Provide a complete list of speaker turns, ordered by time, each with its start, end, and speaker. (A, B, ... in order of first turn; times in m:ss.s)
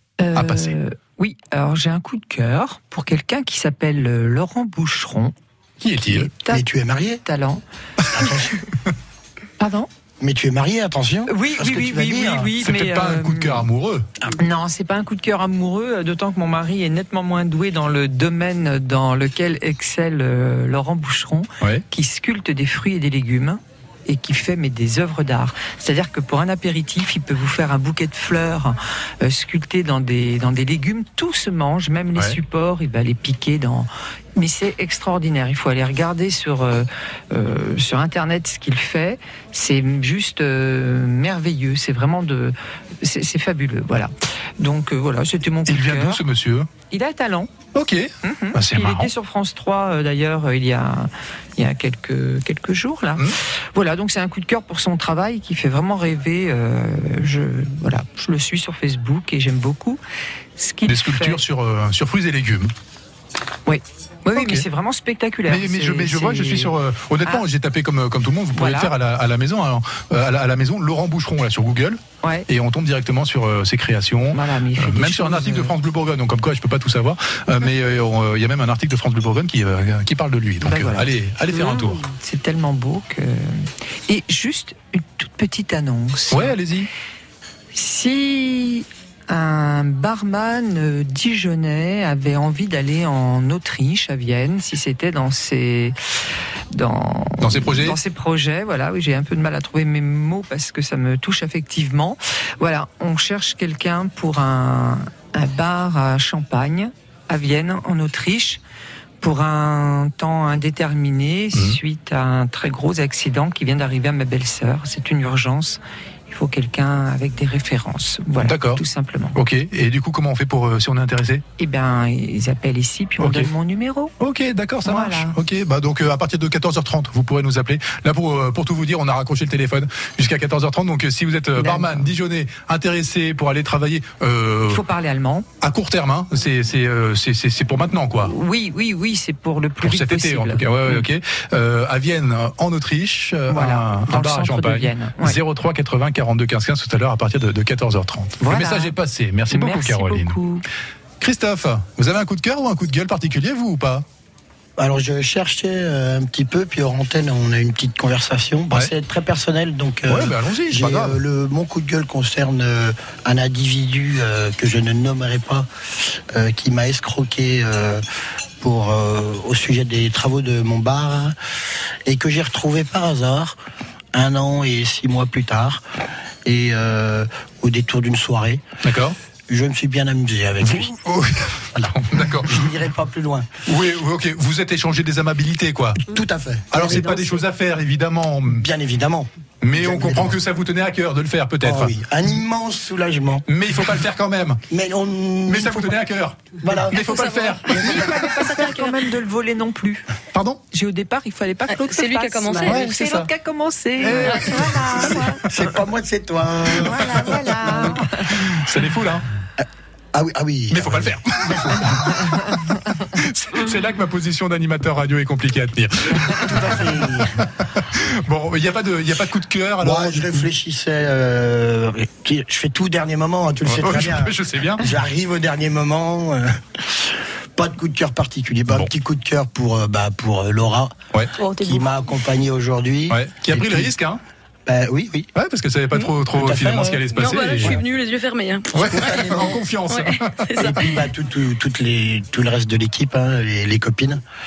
0:00.2-0:05.3 A
0:00.4-0:00.8 B
0:05.8-0:06.3 B
0:06.0-0:06.6 A
0:06.5-0:07.2 C
0:07.2-0:07.6 A
0:08.0-0:08.3 B
0:08.1-0:08.6 C
0:09.6-0:09.9 A
0:10.2-0:12.5 C
0:11.3-0:13.7 A
0:12.6-0:14.1 B
0:14.4-0:46.2 A
0:45.7-0:46.7 B
0:46.9-0:47.5 A
0:47.7-0:49.1 B
0:48.2-1:00.0 A
1:00.6-1:01.4 A
1:00.9-1:02.7 B
1:03.7-1:07.4 A
1:04.3-1:04.7 B
1:05.5-1:22.0 B
1:08.5-1:08.9 A
1:12.2-1:12.5 A
1:14.3-1:15.7 A
1:20.6-1:26.6 A
1:26.3-1:26.9 B
1:27.7-1:36.0 A
1:36.7-1:48.6 A
1:37.4-1:38.0 B
1:49.2-1:59.4 A
1:58.4-2:01.4 B
2:01.6-2:04.1 A
2:03.2-2:03.5 B
2:04.2-2:14.8 B
2:04.8-2:05.4 A
2:11.6-2:12.1 A
2:14.7-2:15.5 A
2:15.6-2:18.3 B
2:18.2-2:21.1 A
2:19.8-2:30.4 B
2:23.5-2:25.4 A
2:28.4-2:29.0 A
2:29.5-2:30.6 A
2:31.2-2:34.0 B
2:34.8-2:45.7 C
2:40.1-2:41.2 B
2:46.3-2:48.0 C
2:48.6-2:51.4 C
2:52.1-2:53.6 C
2:54.1-2:55.8 C
2:56.4-2:58.6 C
2:58.8-2:59.2 B
2:59.5-3:00.9 C
3:00.6-3:02.6 B
3:01.8-3:03.5 C
3:03.7-3:06.0 B
3:06.1-3:07.4 C
3:06.7-3:08.7 B
3:08.5-3:10.4 C
3:09.6-3:12.0 B
3:11.6-3:13.4 C
3:13.5-3:14.6 B
3:14.7-3:16.0 C
3:15.5-3:18.0 B
3:16.6-3:18.0 C
3:16.9-3:19.0 D
3:17.8-3:20.0 A
3:20.3-3:20.6 B
3:20.7-3:25.4 A
3:21.7-3:23.1 D
3:22.7-3:23.3 B
3:24.0-3:25.0 B
3:24.2-3:25.1 D
3:25.5-3:28.0 C
3:26.8-3:28.4 A
3:28.4-3:29.2 B
3:29.6-3:32.0 C
3:30.7-3:40.3 B
3:36.6-3:37.4 C
3:39.8-3:46.6 C
3:43.6-3:44.8 B
3:47.6-3:51.0 C
3:51.4-3:51.9 D
3:51.6-3:53.9 C
3:53.1-3:54.2 B
3:54.7-3:55.3 C
3:55.4-3:57.8 B
3:56.4-3:57.0 C
3:57.2-4:00.8 D
3:58.7-4:00.9 B
3:58.8-3:59.6 C
4:00.6-4:04.2 C